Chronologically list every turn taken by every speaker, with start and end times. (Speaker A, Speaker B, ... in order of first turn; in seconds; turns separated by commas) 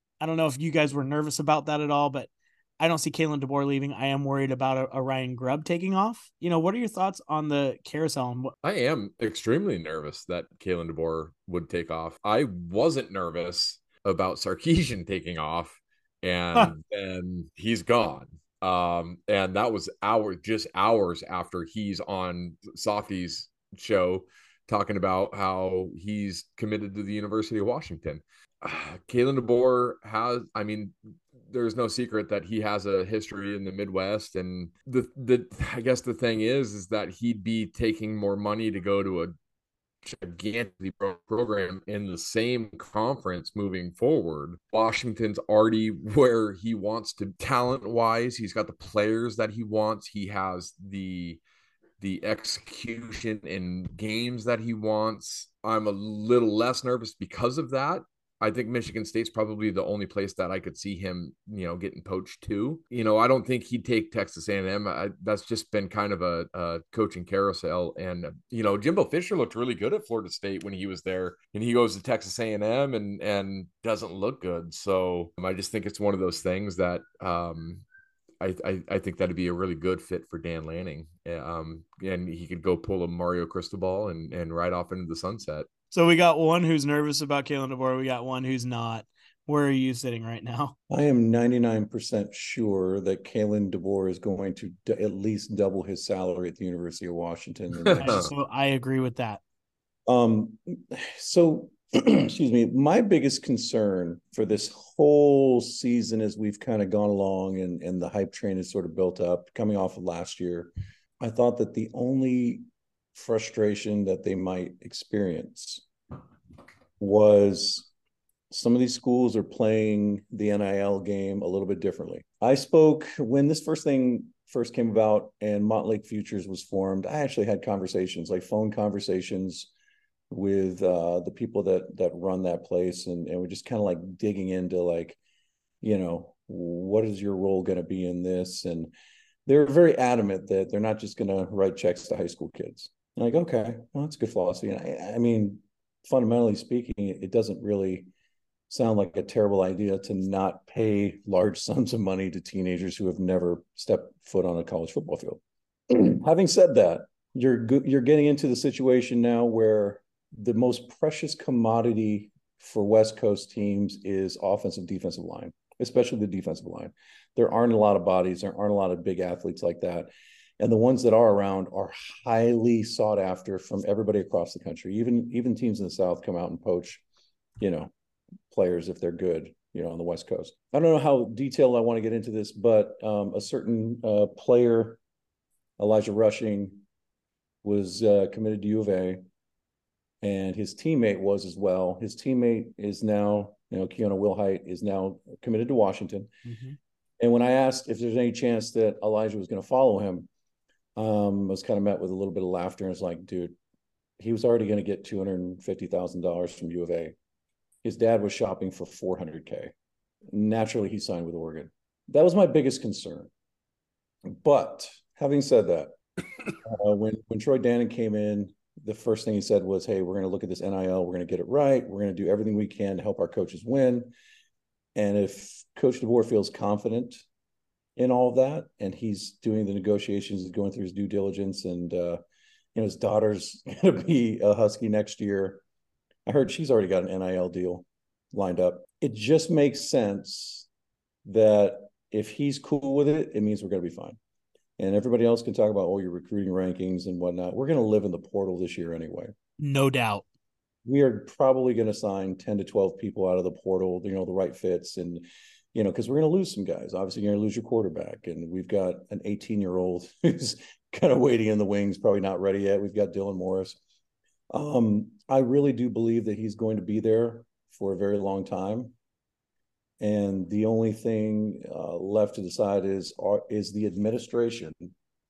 Speaker A: 0.2-8.5, Speaker B: 8.6-39.3, Speaker B: 40.0-51.4, Speaker B: 52.0-77.8, Speaker B: 78.4-85.7, Speaker A: 85.9-90.7, Speaker C: 90.9-98.3, Speaker B: 97.8-98.3, Speaker A: 98.0-99.4, Speaker C: 100.1-115.8, Speaker C: 117.0-117.9, Speaker C: 118.5-129.7, Speaker C: 130.3-135.2, Speaker C: 135.8-138.9, Speaker C: 139.4-148.1, Speaker C: 148.7-177.0, Speaker C: 177.6-177.9, Speaker C: 178.5-185.0, Speaker C: 185.8-186.8, Speaker C: 187.6-189.2, Speaker C: 190.2-196.3, Speaker A: 196.4-196.8, Speaker C: 197.2-200.3, Speaker C: 200.9-203.6, Speaker C: 204.2-207.1, Speaker C: 207.8-209.7, Speaker C: 210.3-213.3, Speaker C: 214.3-215.9, Speaker C: 216.6-224.1, Speaker C: 224.9-227.2, Speaker C: 227.9-232.2, Speaker C: 232.7-235.6, Speaker C: 236.2-240.7, Speaker C: 241.2-244.2, Speaker C: 244.8-249.3, Speaker A: 249.6-250.2, Speaker C: 250.8-263.8, Speaker C: 264.5-268.9, Speaker C: 270.0-274.9